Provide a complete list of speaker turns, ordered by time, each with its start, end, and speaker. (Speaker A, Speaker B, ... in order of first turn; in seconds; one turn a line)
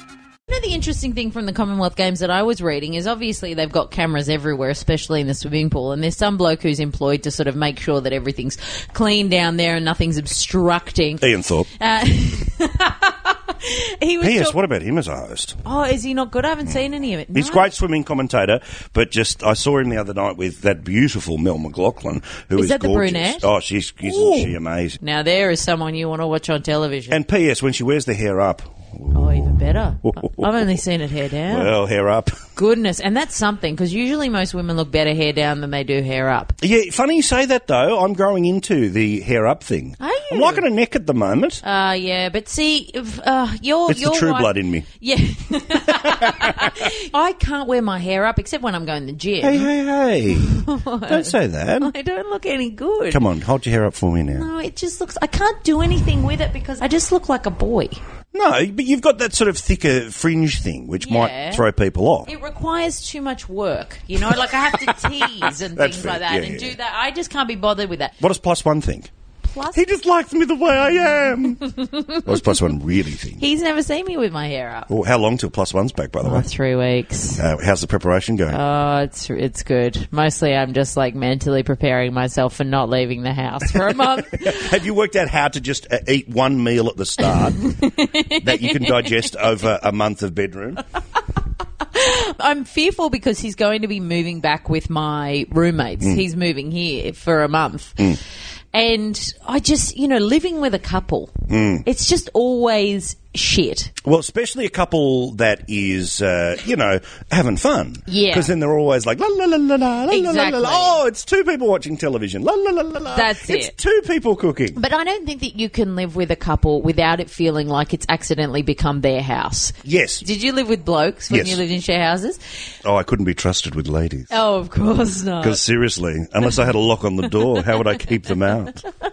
Speaker A: 0.5-11.2
Speaker B: 11.2-11.7
Speaker A: 11.8-14.6
Speaker B: 14.2-15.6
Speaker A: 15.6-17.7
Speaker B: 17.3-25.0
Speaker A: 22.5-23.5
Speaker A: 24.0-27.2
Speaker B: 27.1-30.7
Speaker A: 29.1-31.7
Speaker B: 31.5-32.4
Speaker A: 32.5-36.6
Speaker B: 36.6-41.6
Speaker A: 40.0-40.6
Speaker A: 41.6-49.7
Speaker B: 43.9-44.9
Speaker B: 45.9-46.9
Speaker B: 49.4-51.9
Speaker A: 50.3-53.2
Speaker B: 53.1-54.5
Speaker A: 54.3-58.0
Speaker B: 58.3-62.3
Speaker A: 61.0-61.6
Speaker A: 62.3-68.1
Speaker B: 64.3-66.8
Speaker B: 68.2-69.1
Speaker A: 69.4-69.8
Speaker B: 69.7-73.4
Speaker A: 71.7-72.4
Speaker A: 73.4-74.9
Speaker B: 74.9-76.5
Speaker A: 76.2-77.4
Speaker B: 77.4-78.6
Speaker A: 78.5-84.7
Speaker B: 84.0-87.7
Speaker A: 87.6-89.1
Speaker B: 88.3-90.8
Speaker A: 91.9-98.2
Speaker A: 98.7-101.3
Speaker B: 101.5-101.8
Speaker A: 101.8-103.9
Speaker B: 104.0-114.8
Speaker A: 108.1-108.5
Speaker A: 110.1-111.0
Speaker A: 113.1-113.7
Speaker A: 114.7-122.4
Speaker B: 119.8-120.2
Speaker B: 121.3-121.6
Speaker B: 122.8-124.3
Speaker A: 124.3-125.6
Speaker B: 125.4-128.8